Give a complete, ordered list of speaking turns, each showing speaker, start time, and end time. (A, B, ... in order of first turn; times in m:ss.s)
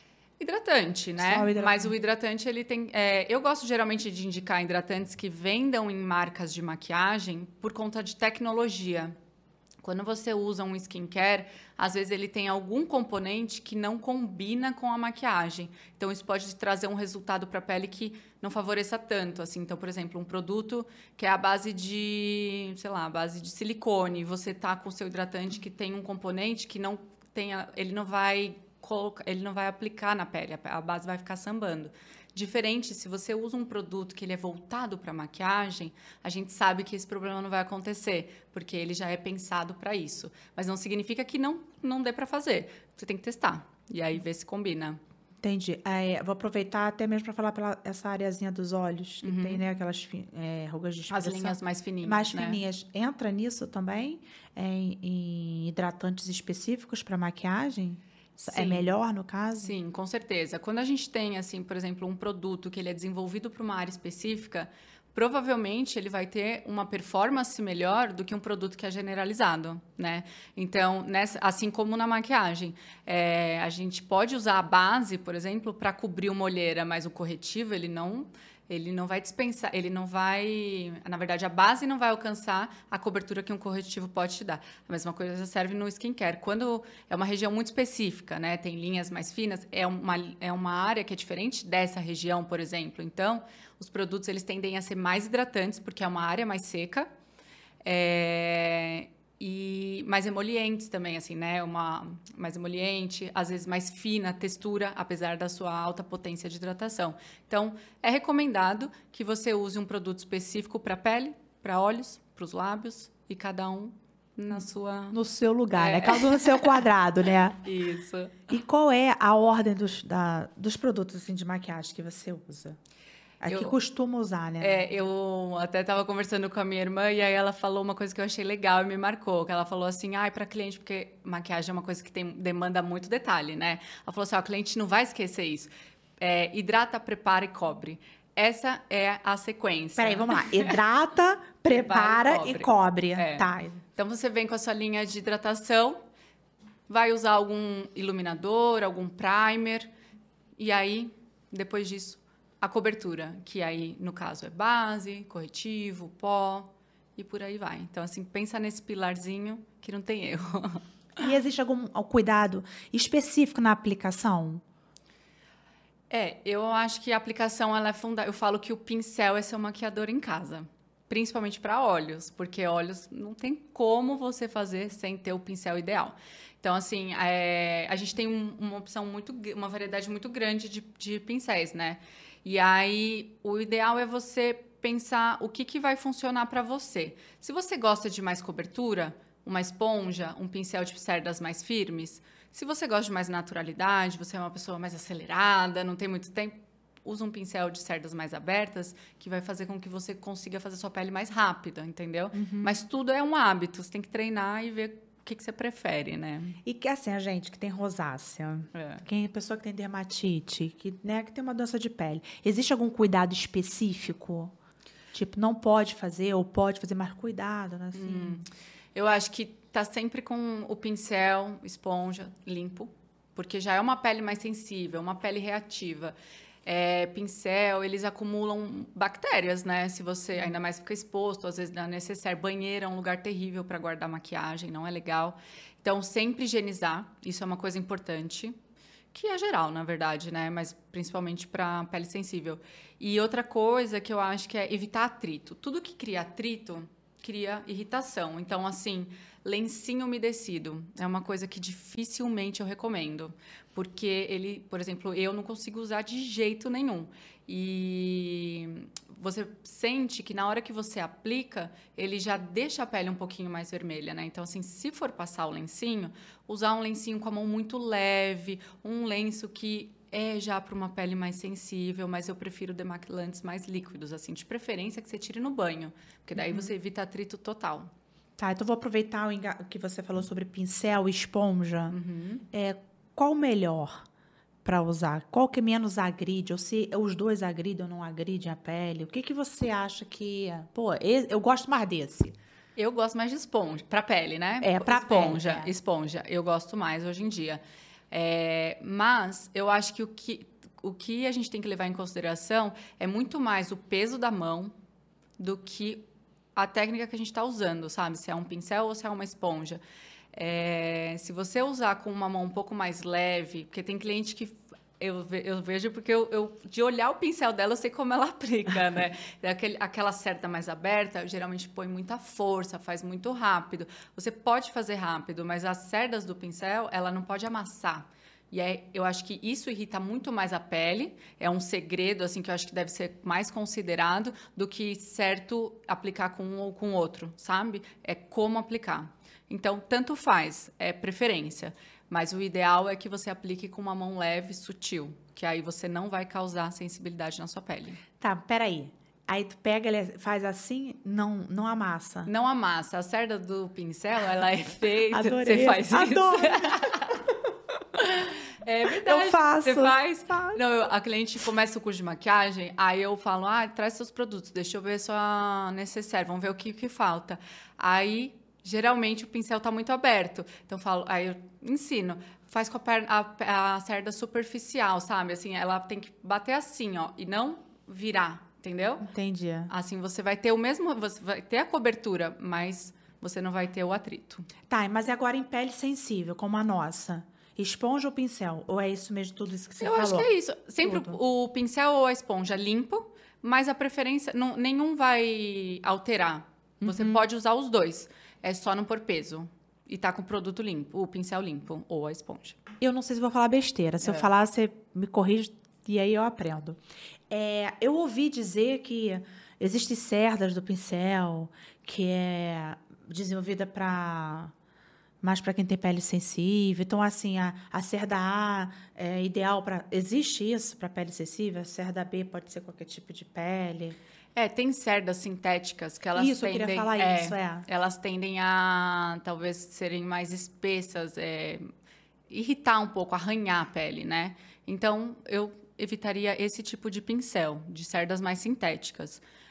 0:00.4-0:09.1 A
0:01.2-0:01.9 B
0:09.8-0:45.0 A
0:45.4-0:59.7 B
0:49.2-0:49.6 A
0:51.1-0:52.6 A
0:58.5-0:58.9 A
0:59.6-1:37.1 A
1:37.8-1:55.2 A
1:55.1-1:57.6 B
1:55.7-1:56.7 A
1:57.6-1:58.5 A
1:58.5-2:02.8 B
2:03.4-2:04.8 B
2:03.5-2:03.8 A
2:04.6-2:20.8 A
2:20.0-2:23.8 B
2:21.7-2:26.0 A
2:26.9-2:29.9 A
2:30.6-2:40.8 A
2:41.2-2:44.6 B
2:46.1-3:26.6 A
3:22.3-3:22.7 B
3:26.6-3:34.5 B
3:28.7-3:29.0 A
3:35.1-3:38.4 B
3:37.9-3:46.1 A
3:46.6-3:58.6 A
3:59.1-4:37.9 A
4:36.4-4:36.7 B
4:38.4-4:42.0 B
4:41.9-4:42.4 A
4:42.5-4:44.0 B
4:44.6-4:52.4 B
4:52.8-5:04.7 A
4:54.6-4:55.7 B
5:05.4-5:09.8 A
5:10.3-5:48.0 A
5:48.2-5:52.3 B
5:52.2-5:57.2 A
5:55.1-5:56.8 B
5:58.0-6:19.1 A
5:59.0-6:00.6 B
6:19.0-6:19.7 B
6:19.7-6:24.5 A
6:24.7-6:30.3 B
6:29.8-6:42.6 A
6:30.8-6:31.2 B
6:36.8-6:37.2 B
6:42.8-6:46.8 B
6:44.0-6:44.3 A
6:47.3-6:54.5 B
6:55.2-7:04.0 B
7:04.4-7:11.6 A
7:06.2-7:07.6 B
7:12.3-7:19.2 A